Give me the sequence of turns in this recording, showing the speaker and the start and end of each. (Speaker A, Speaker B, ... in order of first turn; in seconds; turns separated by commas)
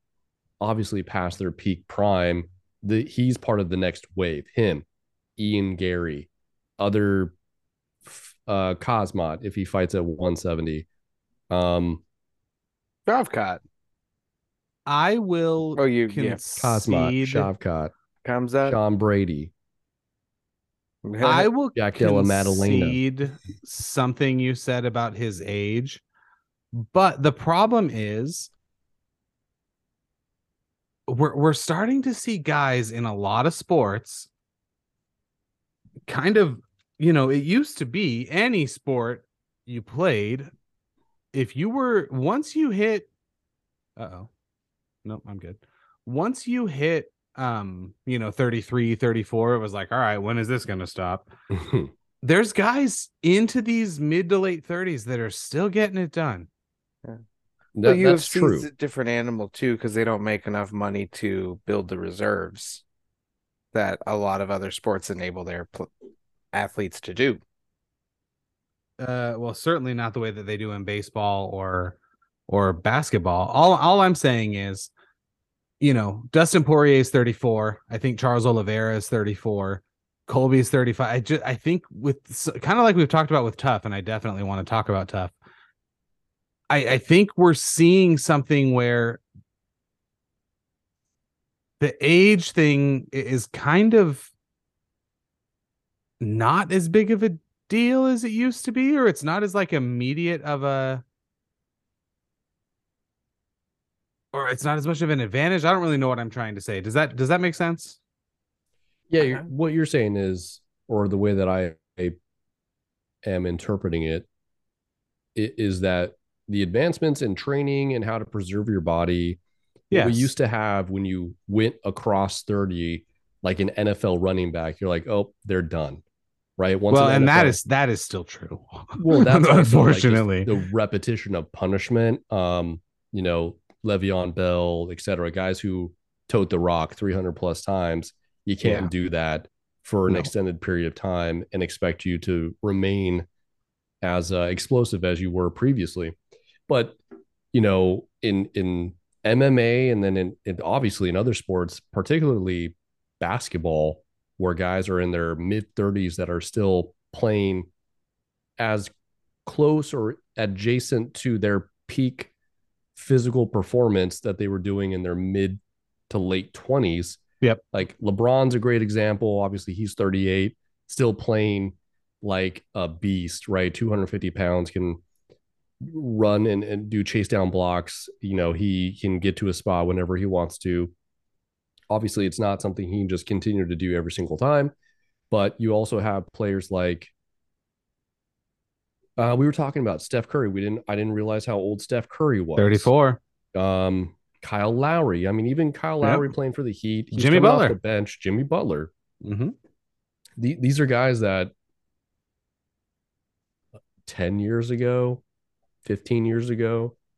Speaker A: 0.6-4.8, Speaker A: 5.4-7.3, Speaker A: 8.0-10.9, Speaker A: 11.5-12.0, Speaker B: 13.1-13.6, Speaker C: 14.9-17.5, Speaker B: 15.8-16.4, Speaker A: 16.6-17.9, Speaker B: 18.2-18.8, Speaker A: 18.6-19.5, Speaker B: 21.0-21.5, Speaker C: 21.2-26.0, Speaker A: 21.7-23.0, Speaker C: 26.7-28.5, Speaker C: 31.1-34.3, Speaker C: 36.1-40.5, Speaker C: 41.3-43.1, Speaker C: 44.0-44.3, Speaker C: 45.0-51.3, Speaker A: 51.5-51.9, Speaker C: 52.2-56.5, Speaker A: 57.8-58.7, Speaker B: 57.8-62.8, Speaker B: 63.7-65.9, Speaker B: 66.5-67.4, Speaker C: 69.0-72.0, Speaker C: 72.5-74.9, Speaker C: 75.8-85.3, Speaker C: 86.7-89.2, Speaker C: 91.8-94.3, Speaker C: 96.2-101.0, Speaker C: 104.3-108.0, Speaker A: 109.1-112.2, Speaker A: 113.2-114.3, Speaker A: 115.3-119.4, Speaker C: 119.9-120.3, Speaker A: 119.9-126.0, Speaker A: 126.6-127.6, Speaker C: 126.9-130.5, Speaker A: 129.0-143.2, Speaker B: 138.6-138.9, Speaker A: 144.0-146.2, Speaker A: 146.7-147.0, Speaker A: 147.5-157.7, Speaker A: 158.6-158.9, Speaker A: 159.4-162.3, Speaker A: 162.9-167.2, Speaker A: 167.7-175.0, Speaker A: 175.8-180.9, Speaker A: 181.9-184.7, Speaker A: 185.3-187.1, Speaker A: 189.2-192.9, Speaker C: 192.6-193.2, Speaker A: 193.5-198.9, Speaker C: 196.0-196.3, Speaker C: 197.1-197.8, Speaker C: 199.2-199.5, Speaker A: 200.4-201.5, Speaker A: 204.1-205.2, Speaker A: 205.8-206.9